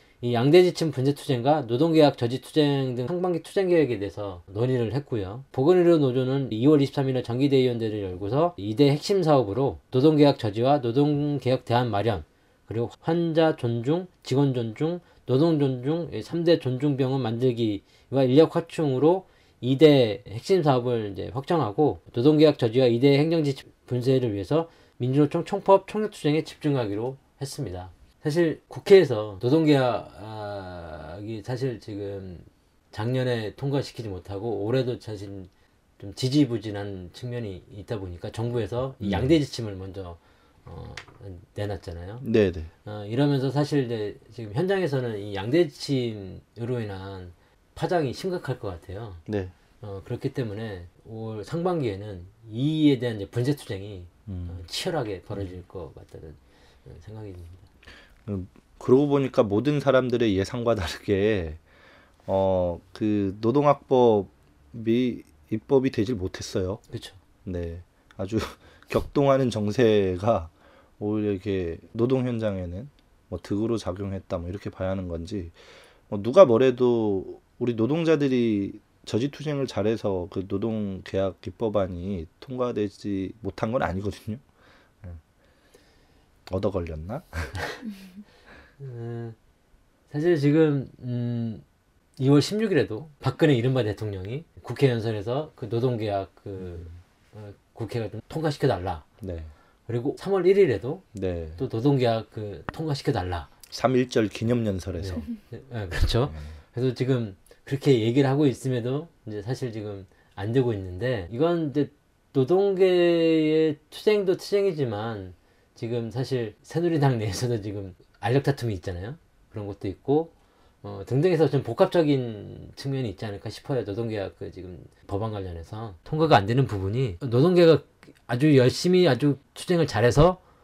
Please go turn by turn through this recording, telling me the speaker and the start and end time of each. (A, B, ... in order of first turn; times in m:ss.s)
0:00.2-0:42.2 A
0:39.0-0:39.3 B
0:42.2-0:42.7 B
0:42.8-0:49.2 A
0:49.3-0:49.5 B
0:49.8-0:57.6 A
0:54.3-0:54.6 B
0:58.2-1:01.6 B
1:02.2-1:06.8 B
1:06.9-1:07.2 A
1:07.4-1:15.6 B
1:16.1-1:24.4 B
1:26.5-1:27.6 B
1:28.8-1:29.4 A
1:30.1-1:31.6 A
1:32.2-1:39.0 A
1:39.2-1:39.5 B
1:39.9-1:41.1 A
1:41.1-1:41.6 B
1:41.6-1:43.5 A
1:43.7-1:45.3 B
1:45.0-2:10.4 A
1:46.3-1:46.6 B